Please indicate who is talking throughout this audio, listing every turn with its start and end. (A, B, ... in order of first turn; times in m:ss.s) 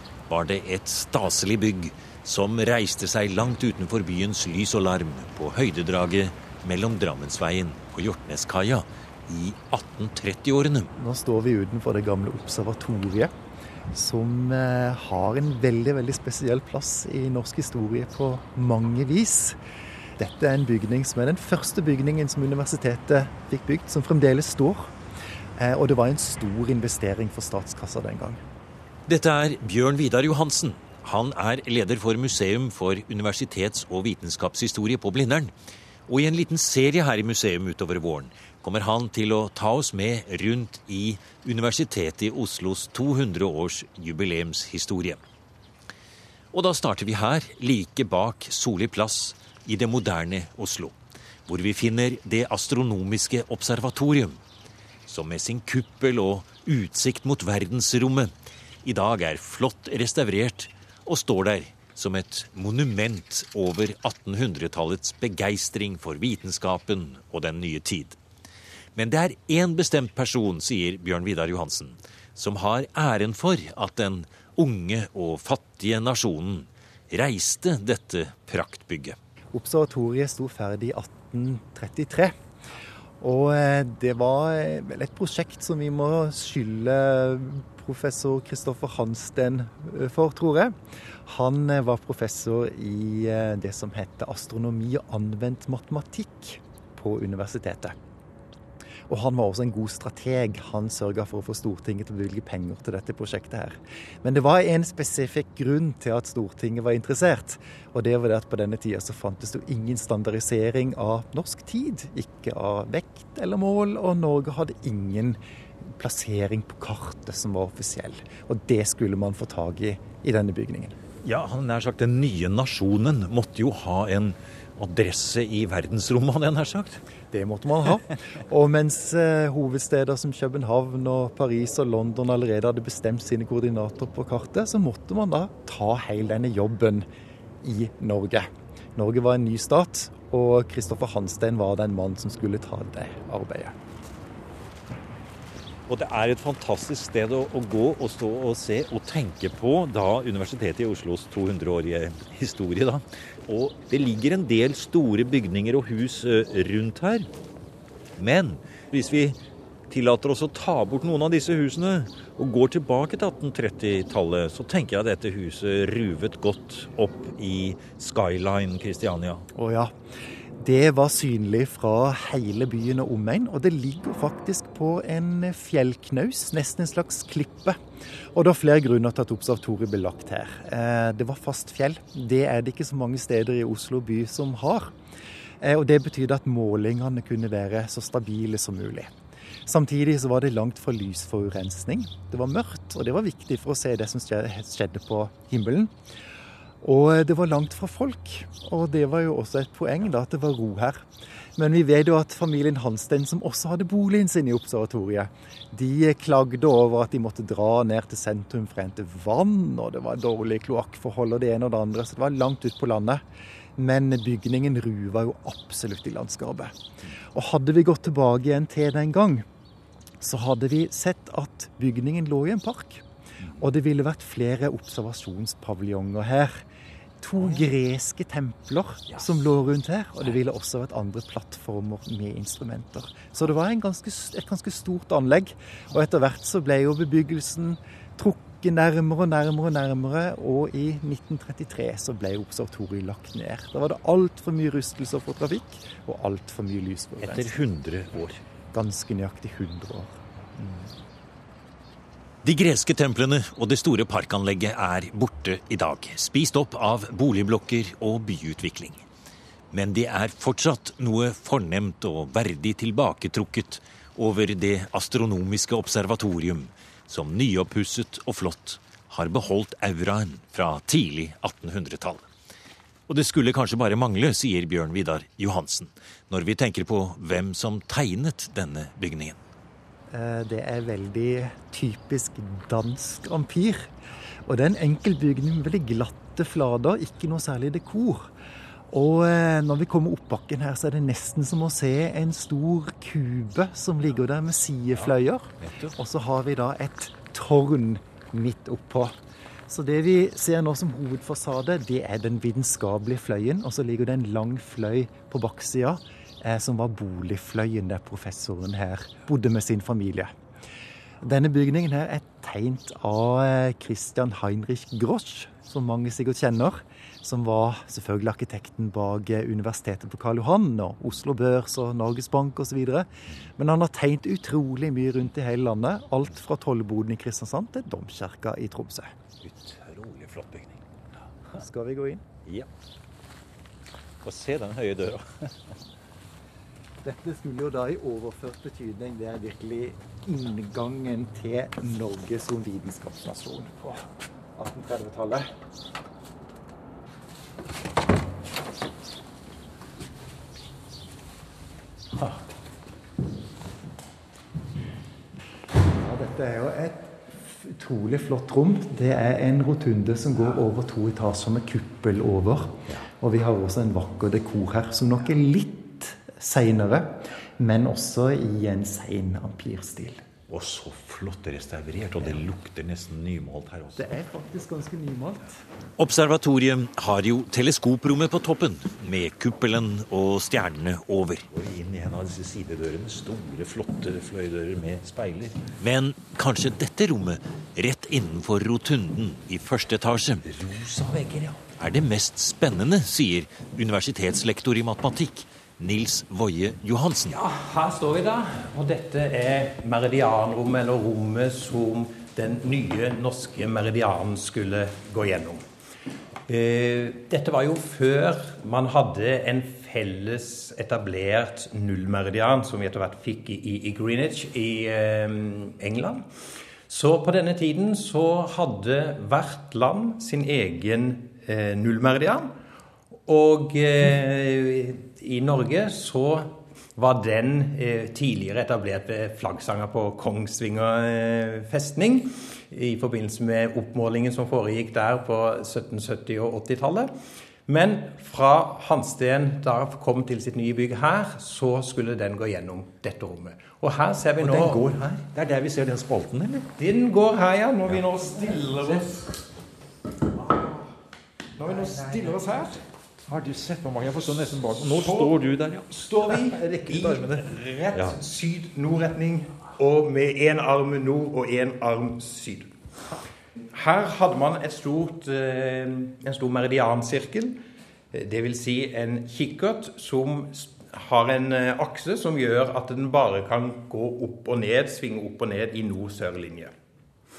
0:00.3-0:10.9 A
0:11.0-0:13.3 B
0:13.9-0:19.6 B
0:20.2-0:24.9 B
0:25.6-0:28.4 B
0:29.1-0:35.5 A
0:36.1-0:45.2 A
0:46.5-0:54.4 A
0:55.1-0:58.3 A
0:58.8-1:08.2 A
1:09.0-1:19.2 A
1:19.5-1:22.3 B
1:23.2-1:38.0 B
1:39.1-2:01.0 B
2:01.2-2:07.0 A
2:07.3-2:17.1 B
2:17.6-2:23.8 B
2:25.9-2:37.3 A
2:38.2-2:39.4 A
2:39.9-2:49.5 A
2:49.5-2:49.9 B
2:50.6-2:57.8 B
2:58.3-3:04.9 B
3:05.6-3:09.1 B
3:09.7-3:15.9 B
3:16.8-3:33.2 B
3:33.8-3:39.5 B
3:40.2-3:43.0 B
3:43.6-3:46.7 B
3:47.2-4:07.5 B
4:07.2-4:08.4 A
4:08.7-4:10.2 B
4:12.4-4:19.0 A
4:19.7-4:32.3 A
4:33.1-4:39.4 A
4:40.1-4:43.9 B
4:44.5-4:48.3 B
4:48.9-4:59.2 B
4:55.6-4:55.9 A
4:59.7-5:10.3 B
5:11.2-5:29.1 B
5:29.4-5:30.8 A
5:31.6-5:32.2 B
5:34.2-5:35.7 A
5:37.0-5:45.5 B
5:55.8-6:10.2 B
6:10.5-6:14.1 A
6:14.0-6:15.6 B
6:16.0-6:37.4 A
6:37.3-6:45.6 C
6:46.5-6:56.3 C
6:56.9-7:02.5 C
7:03.3-7:17.1 C
7:17.7-7:24.9 C
7:24.4-7:26.7 A
7:26.8-7:29.4 C
7:30.4-7:30.9 C
7:31.6-7:32.8 C
7:33.3-7:38.2 A
7:34.9-7:35.4 C
7:35.9-7:42.7 C
7:43.7-7:47.6 C
7:48.1-7:56.7 C